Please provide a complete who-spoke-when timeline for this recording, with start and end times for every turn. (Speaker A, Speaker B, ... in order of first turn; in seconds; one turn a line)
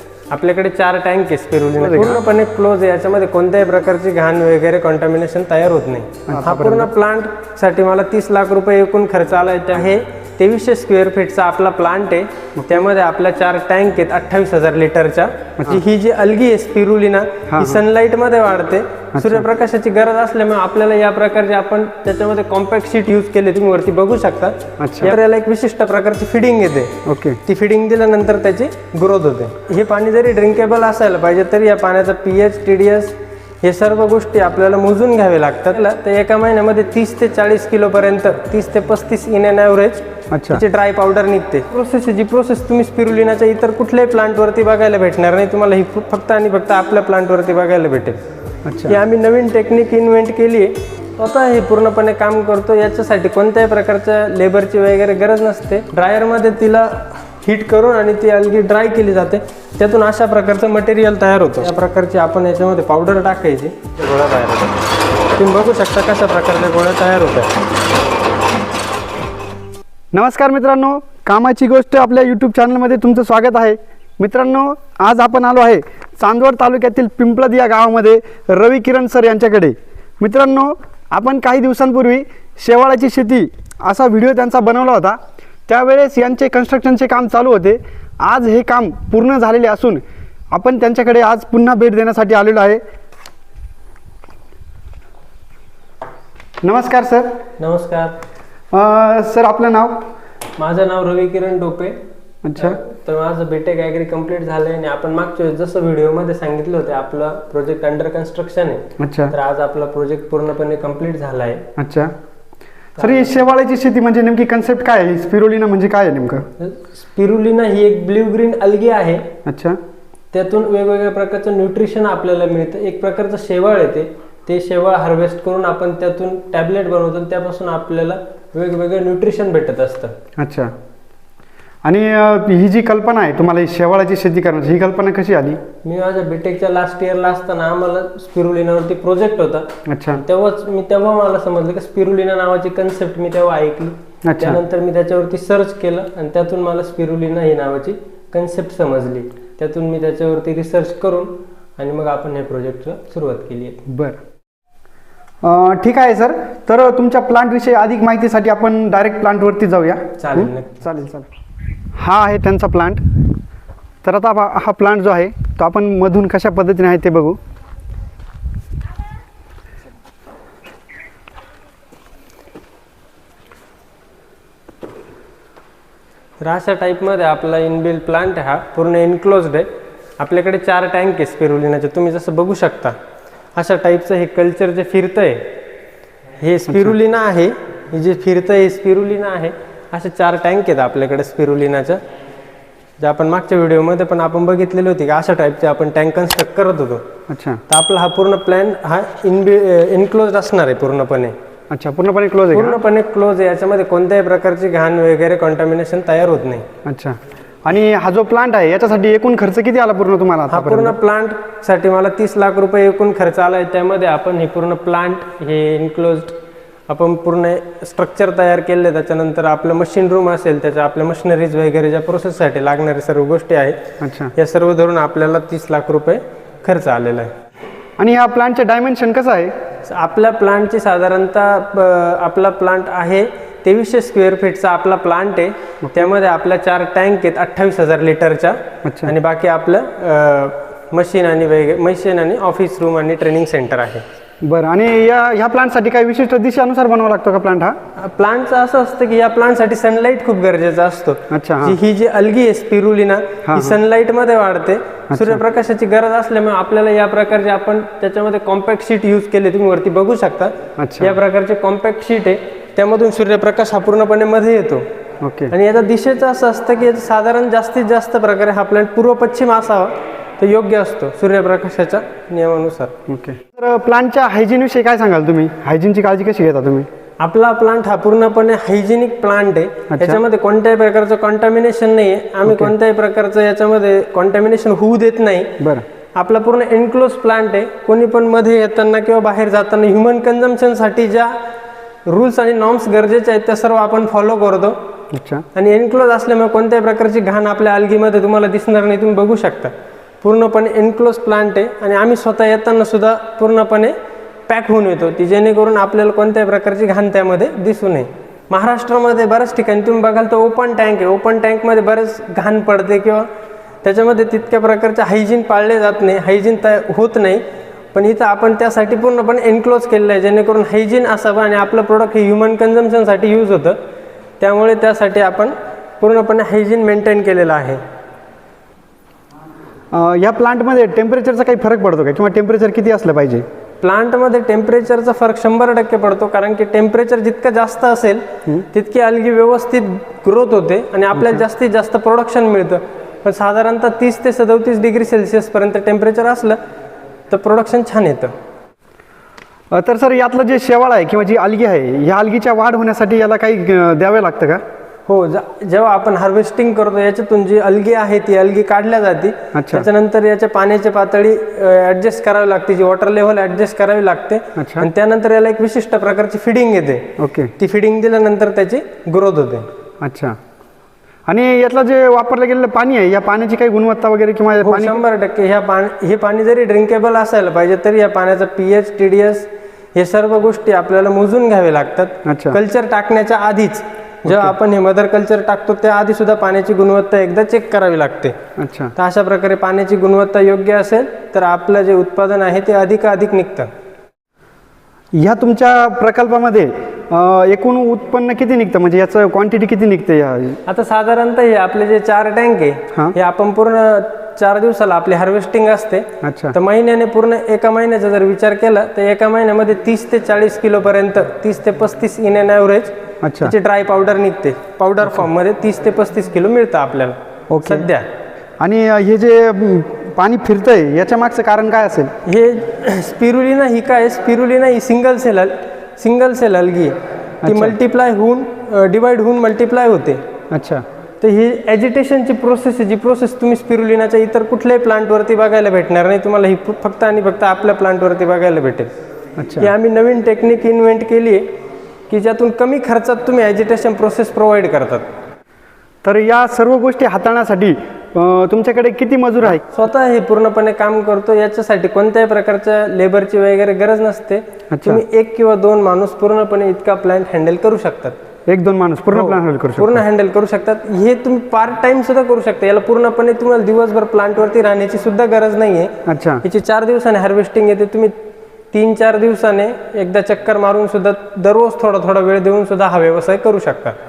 Speaker A: 0.3-48.2
Speaker B: 1.8-2.2
Speaker B: 6.3-6.9
Speaker B: 12.6-12.9
Speaker B: 17.5-17.8
Speaker B: 19.1-19.5
Speaker B: 24.8-25.2
Speaker B: 27.1-27.4
Speaker B: 40.3-40.6
Speaker B: 48.6-49.0
Speaker A: 48.9-64.8
Speaker A: 65.4-67.5
Speaker B: 70.1-92.8
Speaker B: 96.6-97.4
Speaker A: 97.6-98.2
Speaker B: 98.7-100.1
Speaker A: 100.6-102.0
Speaker B: 102.4-102.8
Speaker A: 102.6-111.7
Speaker B: 109.0-109.3
Speaker B: 111.8-112.2
Speaker B: 113.0-116.5
Speaker A: 113.0-113.5
Speaker A: 116.6-119.3
Speaker B: 119.5-119.8
Speaker A: 120.3-130.2
Speaker B: 130.4-130.8
Speaker B: 131.8-135.6
Speaker A: 135.8-153.8
Speaker B: 139.9-140.2
Speaker B: 144.2-144.6
Speaker B: 153.9-154.2
Speaker B: 155.4-161.3
Speaker A: 160.2-160.8
Speaker B: 161.9-163.3
Speaker B: 164.0-167.4
Speaker A: 176.4-183.0
Speaker A: 183.6-185.5
Speaker A: 186.4-192.0
Speaker B: 186.7-187.0
Speaker A: 193.0-197.1
Speaker B: 197.3-197.6
Speaker A: 197.7-201.4
Speaker B: 201.7-202.8
Speaker A: 202.5-206.7
Speaker B: 206.8-211.0
Speaker A: 210.5-216.4
Speaker A: 216.9-223.8
Speaker B: 224.0-224.3
Speaker A: 224.3-227.3
Speaker B: 228.0-229.6
Speaker A: 229.8-244.0
Speaker B: 235.8-236.1
Speaker B: 238.8-239.2
Speaker B: 244.4-247.8
Speaker A: 248.0-264.9
Speaker B: 251.3-251.8
Speaker B: 253.4-253.8
Speaker B: 255.1-255.4
Speaker B: 260.8-261.2
Speaker B: 265.2-265.6
Speaker A: 265.5-272.9
Speaker B: 273.1-276.9
Speaker A: 277.2-285.6
Speaker B: 279.9-280.2
Speaker B: 282.4-282.7
Speaker B: 285.6-285.9
Speaker A: 286.1-291.3
Speaker A: 292.1-294.8
Speaker B: 295.1-295.4
Speaker A: 295.5-303.9
Speaker A: 304.5-313.3
Speaker A: 313.8-323.8
Speaker A: 324.4-327.8
Speaker B: 329.9-333.4
Speaker A: 333.8-346.6
Speaker B: 341.1-341.4
Speaker A: 347.3-348.3
Speaker B: 349.7-354.6
Speaker A: 355.1-369.7
Speaker B: 359.5-359.9
Speaker B: 364.6-364.9
Speaker B: 367.2-367.5
Speaker B: 370.0-370.4
Speaker B: 371.3-375.0
Speaker A: 374.6-388.4
Speaker B: 382.2-382.6
Speaker B: 384.3-384.5
Speaker B: 388.6-388.9
Speaker A: 388.9-393.7
Speaker B: 395.1-400.6
Speaker A: 400.7-418.1
Speaker B: 406.2-406.6
Speaker B: 413.2-413.6
Speaker B: 415.0-415.3
Speaker B: 417.5-417.9
Speaker B: 418.6-422.1
Speaker A: 422.2-430.2
Speaker B: 427.4-427.8
Speaker B: 430.5-430.9
Speaker A: 431.2-438.9
Speaker B: 439.4-439.7
Speaker A: 439.6-441.5
Speaker A: 442.1-445.1
Speaker B: 446.0-449.6
Speaker A: 449.7-458.2
Speaker B: 454.7-455.0
Speaker B: 458.5-460.0
Speaker A: 459.1-468.1
Speaker B: 466.1-466.4
Speaker A: 468.7-474.0